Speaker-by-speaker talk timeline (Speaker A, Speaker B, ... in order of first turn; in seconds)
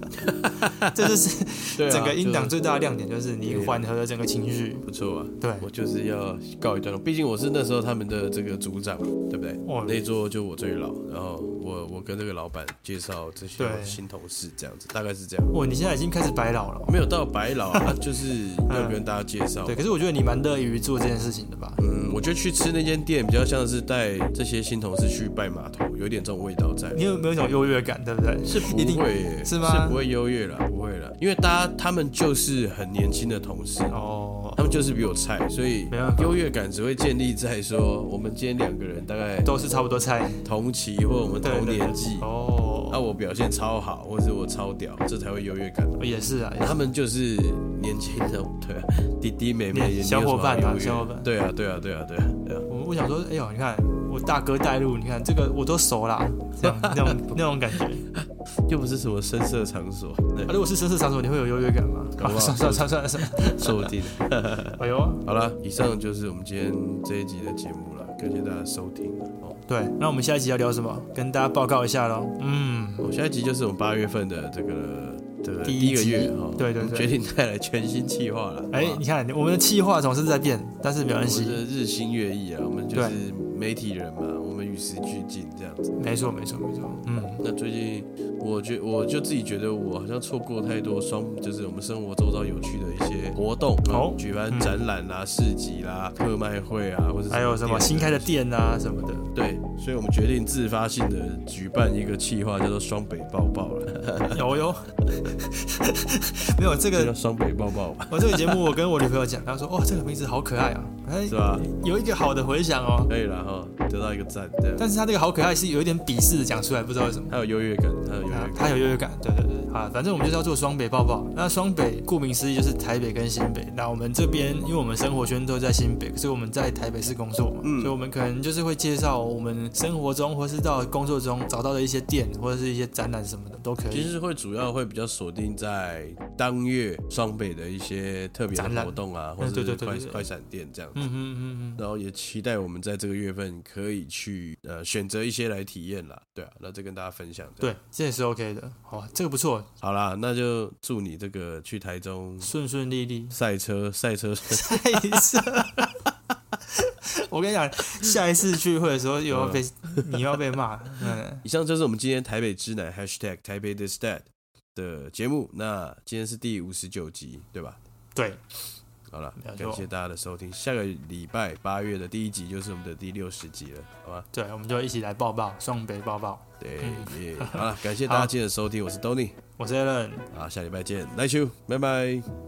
Speaker A: 0.2-0.9, 1.8-2.5, 3.4-3.9, 4.8-15.5, 16.9-19.8, 21.8-27.0, 28.4-34.0, 34.6-39.5, 40.4-42.3, 42.9-46.0, 46.6-52.7, 56.6-57.4, 58.1-60.6, 62.2-69.6, 73.0-79.0, 81.2-85.9, 87.4-98.3, 99.3-104.4, 107.0-108.7, 111.3-111.7, 113.1-114.9, 117.3-118.7, 127.6-128.0, 133.9-141.1, 141.8-147.7, 149.8-152.5, 153.3-155.6, 159.3-160.2, 161.4-167.8, 169.1-174.3, 176.6-179.4, 180.3-182.3
Speaker B: 0.6-4.8, 5.4-5.7, 9.7-10.0, 13.6-14.0, 15.5-17.1, 18.7-19.0, 19.6-21.8, 26.9-30.0, 33.9-34.6, 35.9-36.4, 39.4-40.5, 41.4-43.0, 46.0-46.8, 49.7-51.3, 52.7-58.0, 60.5-63.9, 64.8-65.2, 69.7-73.1, 75.6-77.1, 78.7-81.6, 82.9-83.2, 86.0-87.4, 93.9-94.8, 97.3-99.3, 104.3-107.1, 108.1-113.1, 114.8-117.3, 118.3-134.1, 138.5-140.3, 140.9-141.8, 147.6-149.7, 152.4-153.4, 154.5-155.9, 156.7-161.4, 168.2-168.4, 169.4-169.9, 174.3-178.3, 179.6-180.3